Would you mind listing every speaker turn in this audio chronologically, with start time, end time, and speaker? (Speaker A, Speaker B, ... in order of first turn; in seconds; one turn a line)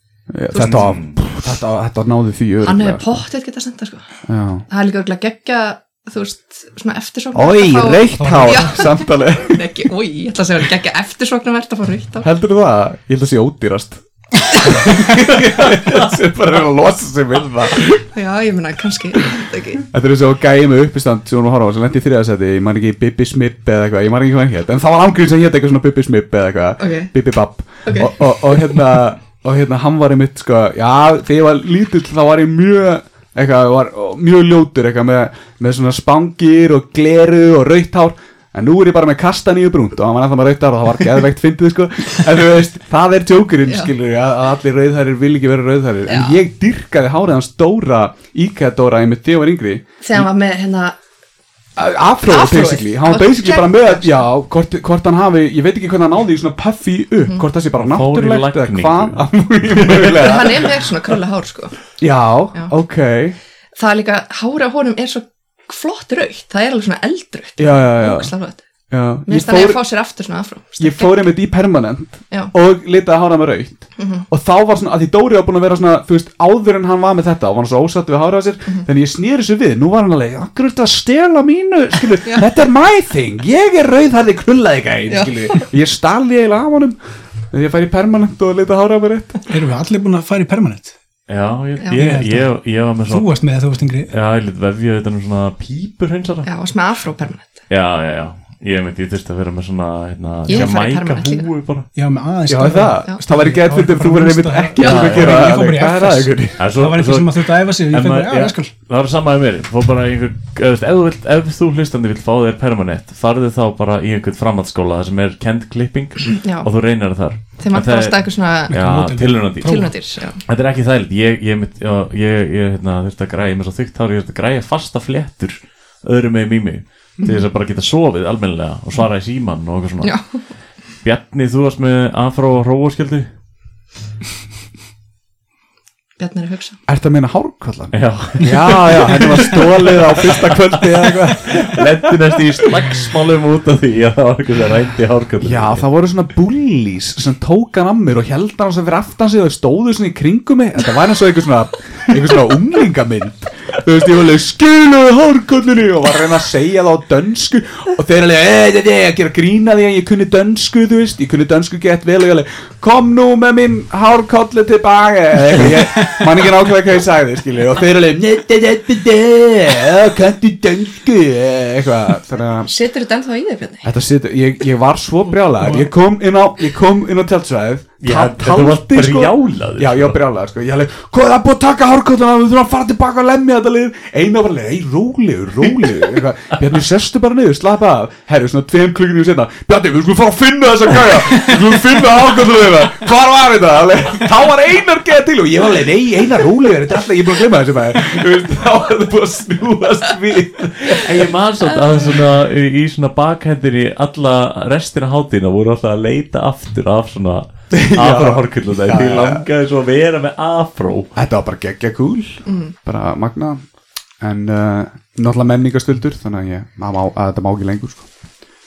Speaker A: 0.3-3.2
Speaker B: 0.5-0.9
Speaker C: 0.6-1.2
Speaker B: 2.6-4.0
Speaker A: 4.2-4.6
Speaker B: 4.7-12.3
Speaker A: 7.3-9.9
Speaker D: 8.1-8.8
Speaker A: 12.2-18.0
Speaker B: 18.1-19.8
Speaker A: 19.9-50.2
Speaker B: 26.8-27.1
Speaker B: 27.8-28.2
Speaker B: 46.1-46.4
Speaker B: 50.0-51.0
Speaker A: 51.8-60.7
Speaker B: 52.3-54.2
Speaker C: 57.8-60.4
Speaker B: 60.1-61.8
Speaker A: 62.0-63.4
Speaker B: 63.8-68.6
Speaker A: 67.6-68.3
Speaker A: 68.9-69.8
Speaker B: 69.2-71.3
Speaker A: 70.8-87.0
Speaker B: 74.0-74.2
Speaker B: 85.1-85.3
Speaker A: 87.5-89.4
Speaker D: 89.5-90.9
Speaker C: 91.3-93.3
Speaker D: 91.9-92.5
Speaker D: 93.1-94.1
Speaker C: 94.1-96.5
Speaker B: 96.4-97.6
Speaker C: 97.7-101.9
Speaker B: 100.5-101.5
Speaker D: 101.9-108.7
Speaker A: 102.5-106.6
Speaker C: 104.8-105.5
Speaker C: 106.6-119.9
Speaker B: 116.4-116.7
Speaker B: 117.6-118.7
Speaker D: 118.7-119.9
Speaker B: 119.6-120.4
Speaker C: 120.4-130.2
Speaker B: 130.0-130.4
Speaker C: 131.0-133.3
Speaker B: 136.2-136.8
Speaker A: 136.9-142.1
Speaker C: 137.9-145.8
Speaker A: 145.4-172.7
Speaker B: 172.7-173.9
Speaker A: 173.8-201.3
Speaker D: 175.4-175.9
Speaker C: 178.0-180.2
Speaker C: 200.9-211.1
Speaker A: 207.7-209.4
Speaker A: 211.1-213.6
Speaker B: 212.4-212.7
Speaker A: 214.2-218.1